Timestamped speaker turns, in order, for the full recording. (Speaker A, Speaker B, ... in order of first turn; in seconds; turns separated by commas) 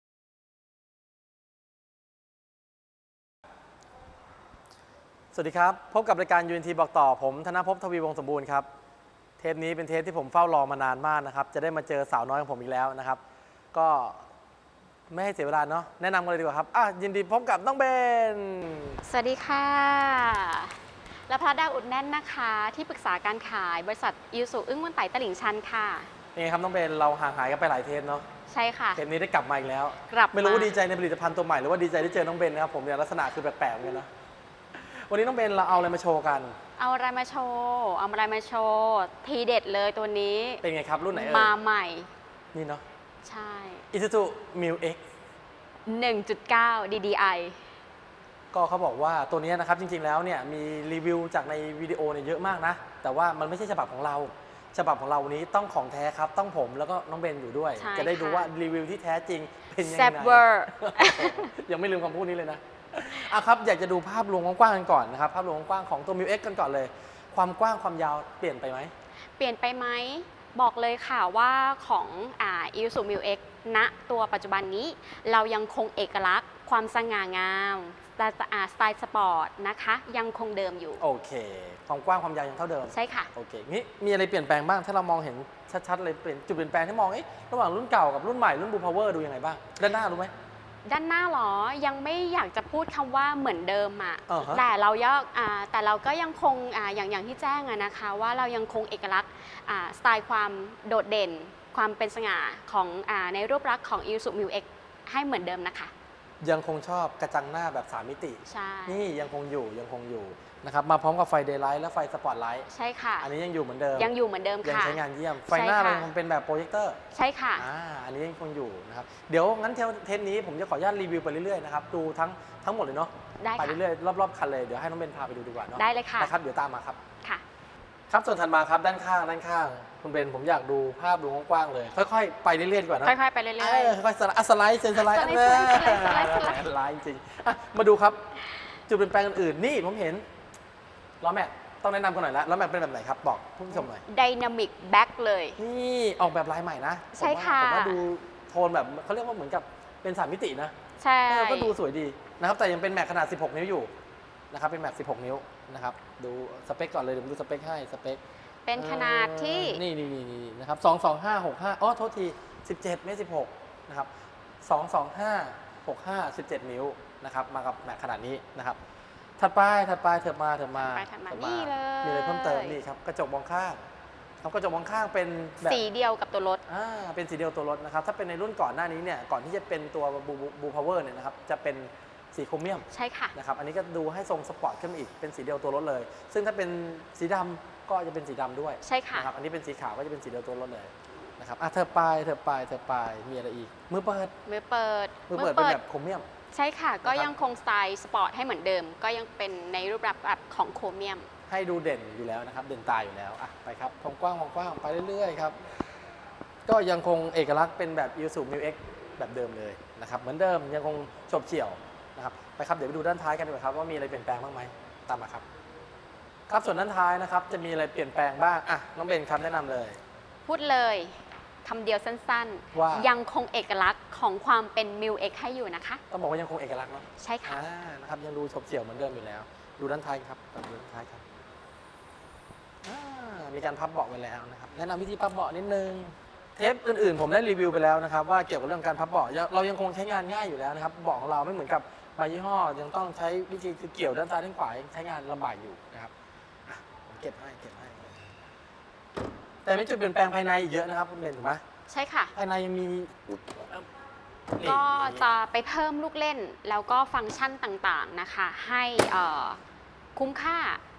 Speaker A: 5.3-8.7, Speaker A: 9.4-13.2, Speaker A: 13.7-14.3, Speaker A: 15.1-19.0, Speaker B: 19.0-20.7, Speaker B: 21.3-26.1, Speaker A: 26.4-28.3, Speaker B: 28.5-29.0, Speaker A: 29.0-34.1, Speaker B: 30.1-30.7, Speaker A: 34.7-36.6, Speaker B: 36.8-42.1, Speaker A: 40.6-41.5, Speaker A: 42.5-42.8, Speaker B: 43.2-43.9, Speaker A: 43.9-45.0, Speaker B: 45.9-47.6, Speaker A: 48.5-68.9, Speaker B: 57.8-58.5, Speaker B: 59.8-61.5, Speaker B: 69.4-81.0, Speaker A: 81.0-90.3, Speaker B: 82.9-83.3, Speaker B: 90.8-105.9, Speaker A: 94.3-94.7, Speaker A: 106.4-112.7, Speaker B: 108.5-109.1, Speaker B: 112.7-113.3, Speaker A: 113.2-114.1, Speaker B: 114.0-116.1, Speaker A: 114.6-117.0, Speaker B: 117.1-117.7, Speaker A: 117.6-127.0, Speaker B: 123.4-123.8, Speaker B: 125.7-126.3, Speaker A: 128.1-138.2, Speaker B: 133.0-134.0, Speaker B: 134.9-136.7, Speaker A: 138.9-140.2, Speaker A: 141.2-144.0, Speaker B: 143.8-145.6, Speaker A: 145.6-150.7, Speaker B: 147.1-148.0, Speaker B: 151.0-151.8, Speaker A: 151.3-153.9, Speaker A: 154.5-158.2, Speaker B: 158.7-159.8, Speaker A: 158.8-164.1, Speaker A: 164.6-168.8, Speaker A: 169.4-173.8, Speaker B: 170.8-172.8, Speaker A: 174.4-175.8, Speaker B: 175.6-176.6, Speaker A: 176.7-194.3, Speaker B: 182.9-183.3, Speaker B: 188.8-189.3, Speaker B: 194.5-195.8, Speaker A: 195.3-196.3, Speaker B: 196.5-201.3, Speaker A: 197.0-197.3, Speaker A: 201.5-205.6, Speaker A: 206.7-215.4, Speaker A: 216.5-220.0, Speaker B: 220.5-226.0, Speaker A: 222.7-223.1, Speaker A: 226.1-231.2, Speaker B: 227.2-227.6, Speaker A: 232.8-246.1, Speaker A: 246.7-248.1, Speaker A: 249.7-251.6, Speaker B: 251.9-252.3, Speaker A: 252.3-253.8, Speaker A: 254.6-255.3, Speaker B: 254.6-259.6, Speaker B: 260.2-260.8